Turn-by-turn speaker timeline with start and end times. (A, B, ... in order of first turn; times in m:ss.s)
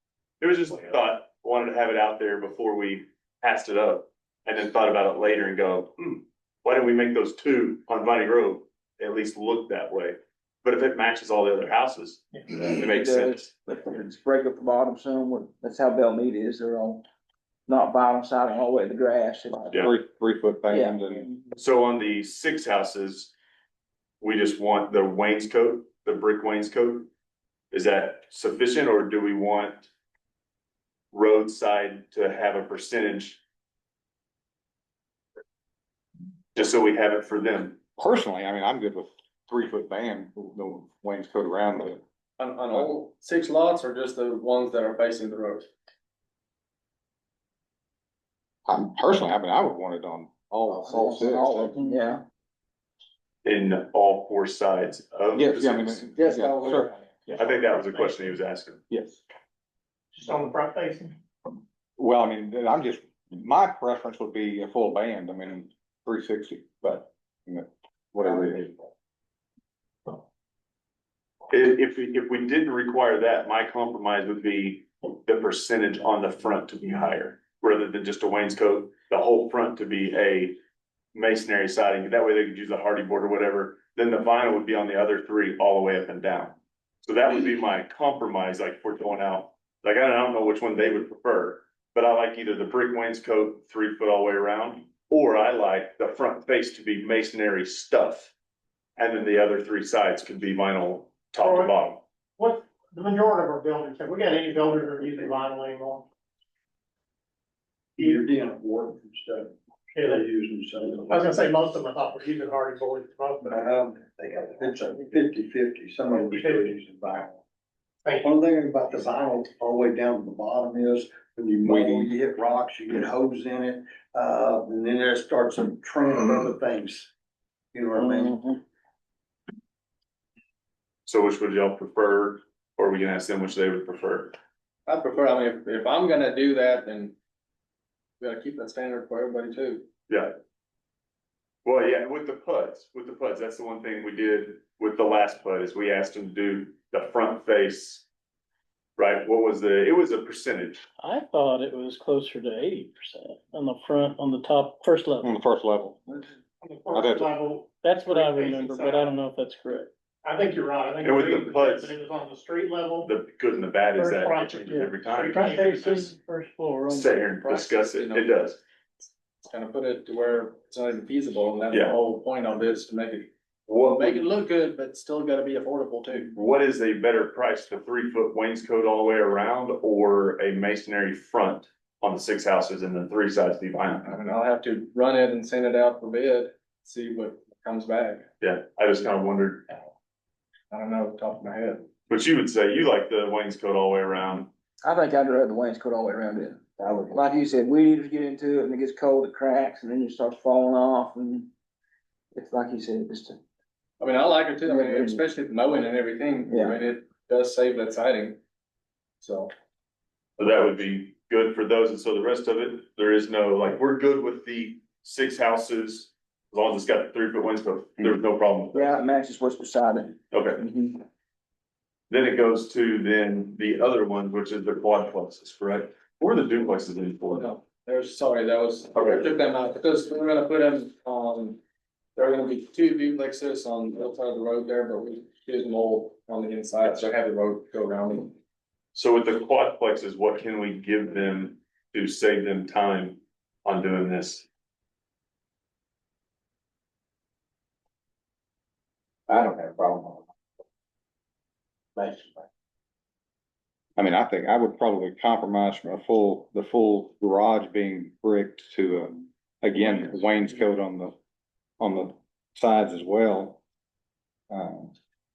0:00.4-0:13.5 A
0:12.6-0:17.0 B
0:17.7-0:19.9 B
0:19.8-0:21.3 C
0:20.7-0:21.3 B
0:21.6-0:23.3 A
0:24.2-0:27.1 A
0:27.7-0:29.9 A
0:31.1-0:33.4 A
0:36.6-0:37.8 A
0:38.0-0:42.0 C
0:42.4-0:45.7 D
0:48.7-0:51.9 C
0:50.8-0:52.2 B
0:53.4-0:56.1 A
0:55.3-0:57.5 C
0:56.2-0:56.7 B
0:57.4-0:58.8 A
0:58.9-0:59.2 C
1:00.1-1:01.1 E
1:02.0-1:08.9 C
1:11.5-1:20.6 A
1:21.2-1:38.3 A
1:39.0-1:42.0 A
1:41.5-1:41.7 E
1:42.4-1:46.1 E
1:48.0-1:51.2 F
1:51.2-1:53.6 E
1:53.4-1:57.4 F
1:58.2-2:07.1 F
2:01.6-2:02.1 C
2:07.7-2:08.4 F
2:08.0-2:08.6 B
2:11.1-2:14.4 A
2:14.9-2:17.2 D
2:18.2-2:19.9 D
2:20.1-2:20.3 A
2:21.6-2:28.1 A
2:29.0-2:30.8 A
2:31.0-2:35.3 G
2:35.2-2:36.3 C
2:36.6-2:39.0 E
2:36.9-2:37.3 C
2:37.7-2:39.9 G
2:40.2-2:43.1 E
2:41.0-2:41.9 A
2:43.0-2:46.1 A
2:44.0-2:44.7 E
2:44.7-2:47.5 G
2:45.5-2:45.8 E
2:46.9-2:48.6 A
2:47.5-2:48.3 D
2:49.5-2:56.3 D
2:51.7-2:52.0 A
2:53.7-2:54.2 A
2:56.3-3:04.0 A
3:04.0-3:08.2 D
3:08.4-3:09.8 A
3:10.7-3:11.9 D
3:12.1-3:14.5 A
3:14.8-3:21.5 B
3:22.3-3:23.4 B
3:24.0-3:28.4 D
3:24.6-3:25.2 B
3:26.5-3:26.8 B
3:29.2-3:29.5 D
3:30.4-3:39.0 A
3:38.7-3:41.0 B
3:40.3-3:40.7 A
3:42.1-3:47.5 A
3:47.3-3:51.6 D
3:49.0-3:49.3 A
3:52.2-3:58.4 D
3:58.9-4:04.5 A
4:09.3-4:09.9 B
4:14.0-4:21.2 C
4:21.8-4:23.6 C
4:24.5-4:25.0 C